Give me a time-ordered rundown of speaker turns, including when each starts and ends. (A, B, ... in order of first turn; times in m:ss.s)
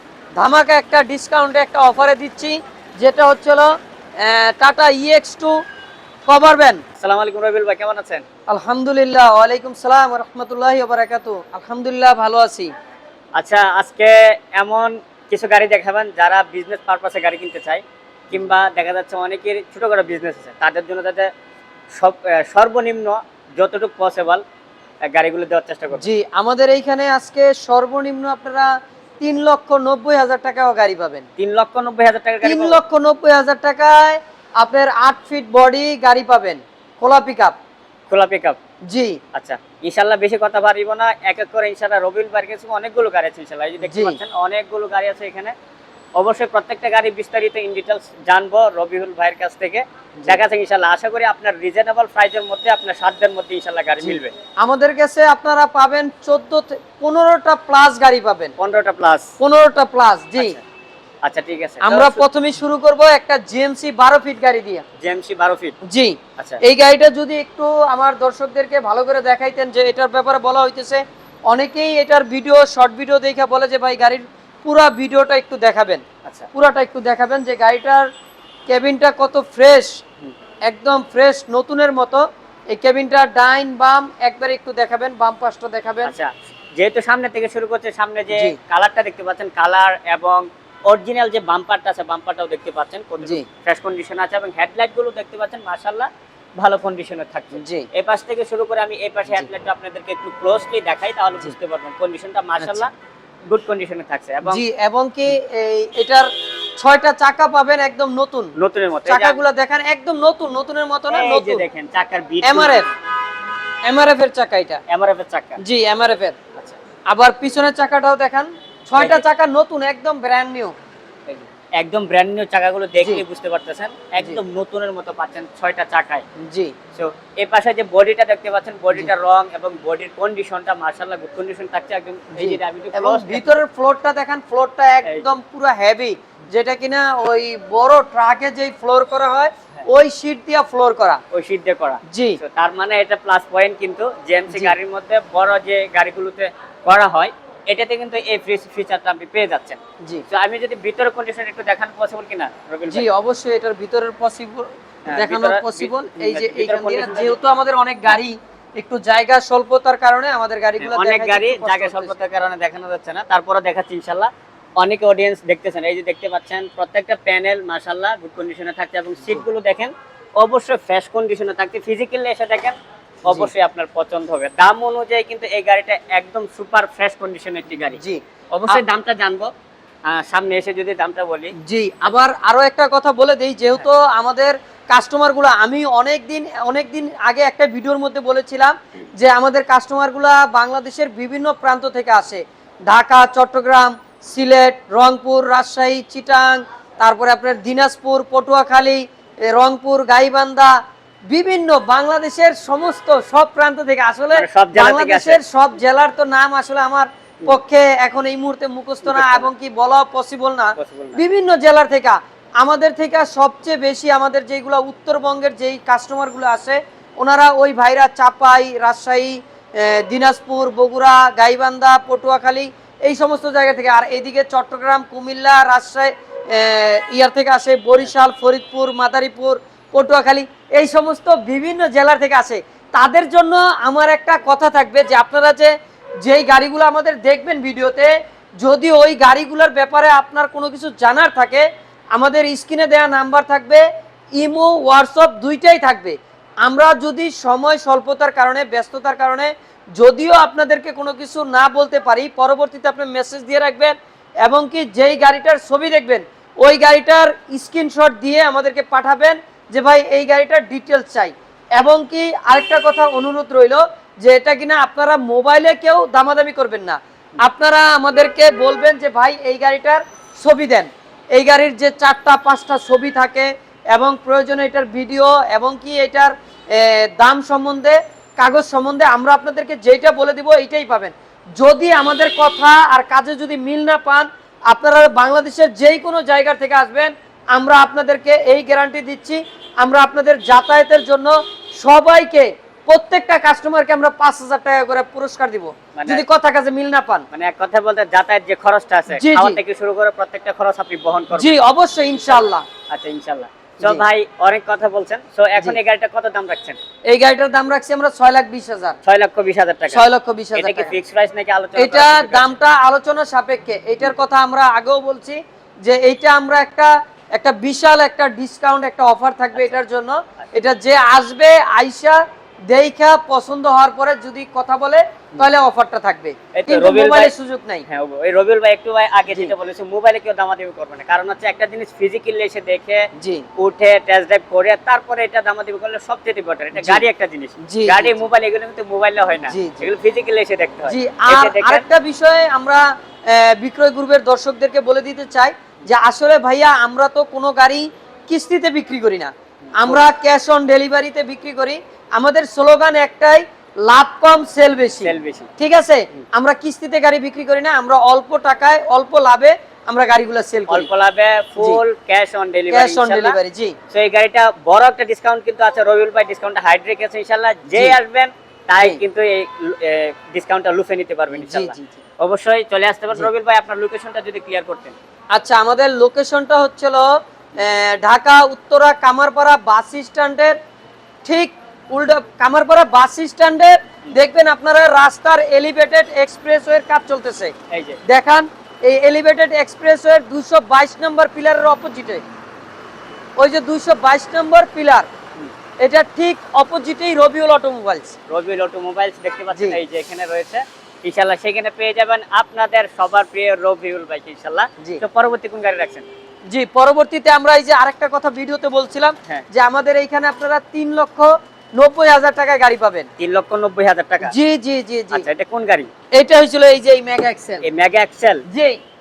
0:00.4-0:03.7 A
0:04.2-0:05.5 A
0:06.3-0:06.8 A
0:07.0-0:08.2 B
0:08.5-0:12.7 A
0:13.3-0:21.3 B
0:21.9-0:24.4 B
0:25.1-0:26.1 B
0:26.0-0:31.2 A
0:31.4-0:32.8 B
0:32.4-0:37.6 A
0:38.1-0:38.6 B
0:38.9-0:39.2 A
0:39.3-0:45.5 B
0:43.8-0:44.2 A
0:46.2-0:54.3 B
0:54.0-0:58.5 A
0:58.6-0:59.3 B
0:59.4-1:00.6 A
1:00.4-1:00.6 B
1:01.2-1:02.2 B
1:01.8-1:04.8 A
1:05.0-1:05.8 B
1:05.9-1:16.0 A
1:16.5-1:18.1 A
1:18.7-1:20.0 A
1:20.6-1:26.1 A
1:26.0-1:42.9 B
1:37.6-1:37.9 A
1:42.6-1:42.9 A
1:43.5-1:44.6 B
1:44.4-1:48.5 A
1:48.6-1:49.4 B
1:49.1-1:51.7 A
1:51.1-1:52.9 B
1:52.4-1:52.9 A
1:53.8-1:54.8 A
1:54.9-1:55.6 B
1:55.6-1:56.4 A
1:57.1-2:00.7 A
1:59.0-1:59.2 B
2:01.3-2:06.2 B
2:06.4-2:06.7 A
2:06.9-2:13.6 B
2:12.3-2:21.2 A
2:21.3-2:33.1 B
2:22.1-2:22.4 A
2:32.9-2:42.1 A
2:35.1-2:37.4 B
2:40.8-2:58.0 B
2:53.2-2:53.5 A
2:58.0-2:58.8 A
2:58.5-2:59.5 B
3:00.1-3:01.5 B
3:01.6-3:20.7 A
3:21.3-3:55.7 A
3:24.3-3:25.4 B
3:29.0-3:29.5 B
3:30.8-3:31.2 B
3:56.2-4:03.8 A
4:04.4-4:57.2 A
4:56.0-4:56.2 B
4:57.3-5:01.5 B
4:59.1-4:59.6 A
5:01.3-5:02.6 A
5:02.3-5:06.8 B
5:07.1-5:09.0 A
5:09.0-5:12.5 B
5:09.9-5:10.9 A
5:11.8-5:27.8 A
5:26.5-5:27.3 B
5:27.9-5:41.8 B
5:33.2-5:33.4 A
5:36.8-5:37.0 A
5:37.6-5:38.2 A
5:39.5-5:39.9 A
5:40.9-6:00.9 A
5:49.6-5:50.1 B
5:55.0-5:55.5 B
6:00.7-6:03.4 B
6:02.7-6:03.7 A
6:03.9-6:15.0 B
6:11.3-6:12.0 A
6:15.3-6:20.5 A
6:21.2-6:27.5 A
6:27.7-6:28.0 B
6:28.0-6:32.2 A
6:33.4-6:35.1 A
6:35.8-6:38.2 A
6:38.3-6:46.1 B
6:39.5-6:39.8 A
6:46.5-6:53.1 A
6:53.2-6:54.3 B
6:54.2-6:55.2 A
6:55.1-6:55.9 B
6:56.2-6:57.7 A
6:57.6-6:58.4 B
6:58.5-6:58.8 A